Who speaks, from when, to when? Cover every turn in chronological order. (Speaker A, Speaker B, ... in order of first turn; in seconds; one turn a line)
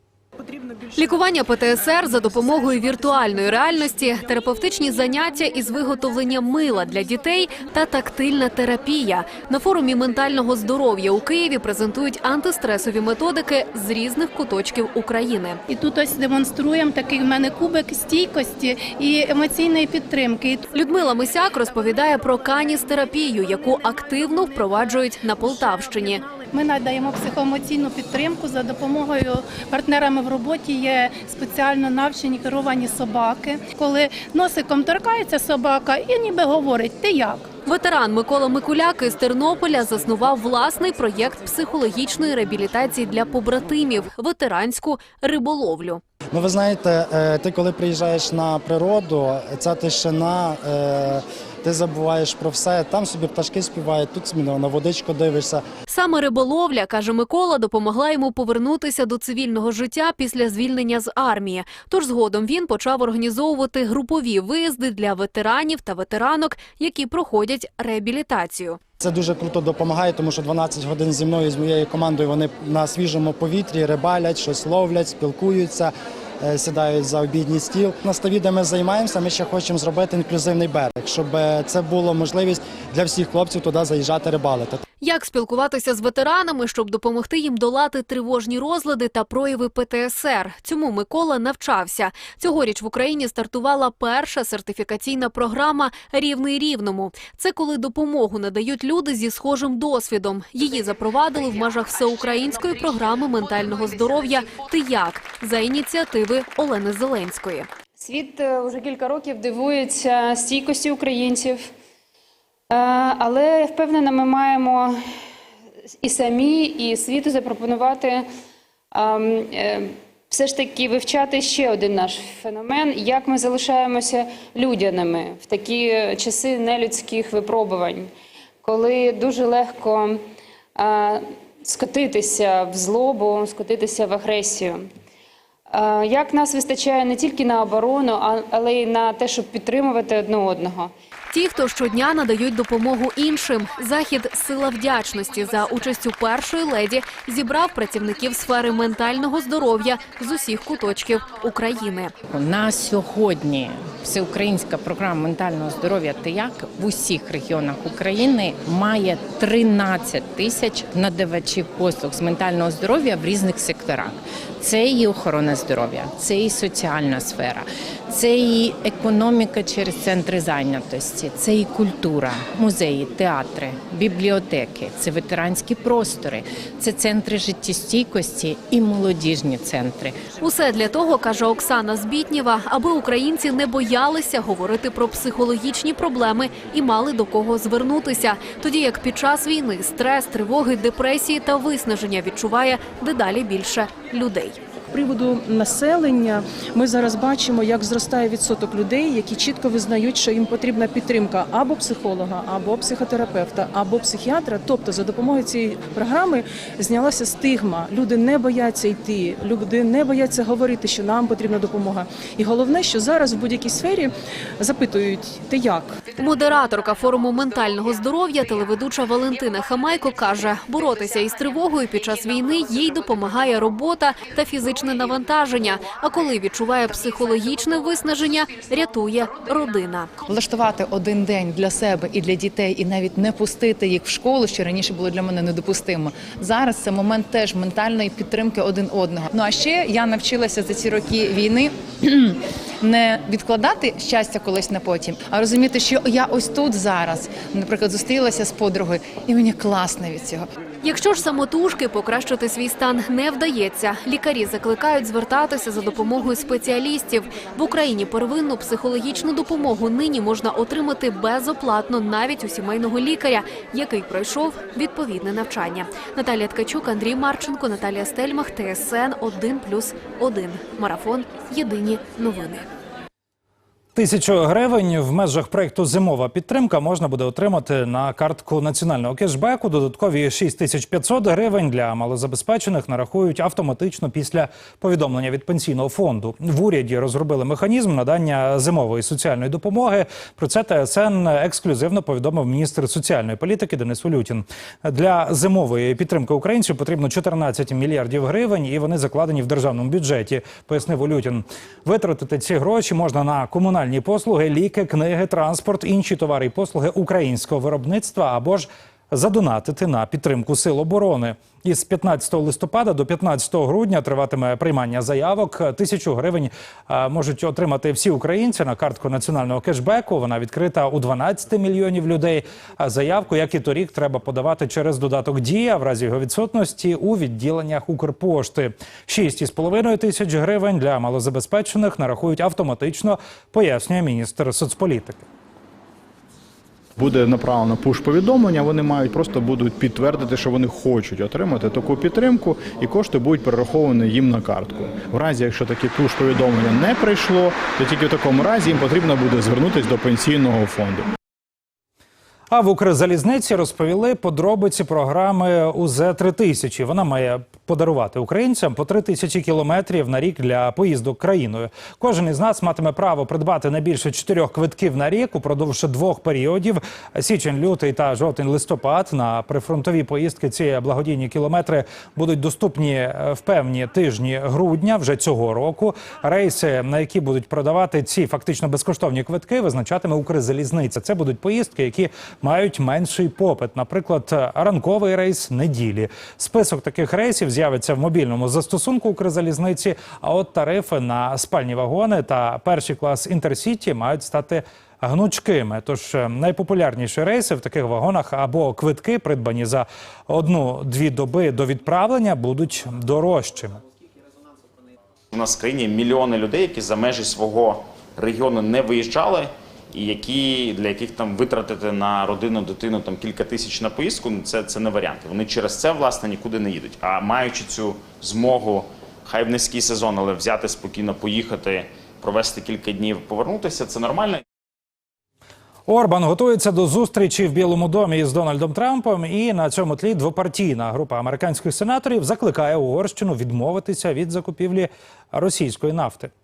Speaker A: 0.9-15.6
Speaker B: 15.7-20.7
Speaker A: 20.7-26.3
Speaker B: 26.5-37.5
Speaker A: 37.6-46.0
Speaker C: 46.3-55.6
Speaker A: 55.9-68.8
Speaker C: 69.0-84.8
Speaker A: 85.0-107.7
Speaker D: 108.0-111.7
Speaker D: 112.7-115.0
Speaker D: 116.0-118.3
Speaker D: 118.9-128.1
Speaker D: 128.6-130.2
Speaker D: 130.8-134.9
Speaker D: 135.7-140.9
Speaker A: 141.3-152.1
Speaker E: 152.3-180.3
Speaker A: 180.4-194.6
Speaker F: 194.9-216.0
Speaker A: 216.1-230.1
Speaker G: 230.3-250.5
Speaker A: 250.8-272.7
Speaker H: 273.9-335.2
Speaker I: 337.0-351.1
Speaker H: 352.5-403.8
Speaker J: 405.3-424.4
Speaker H: 425.9-436.3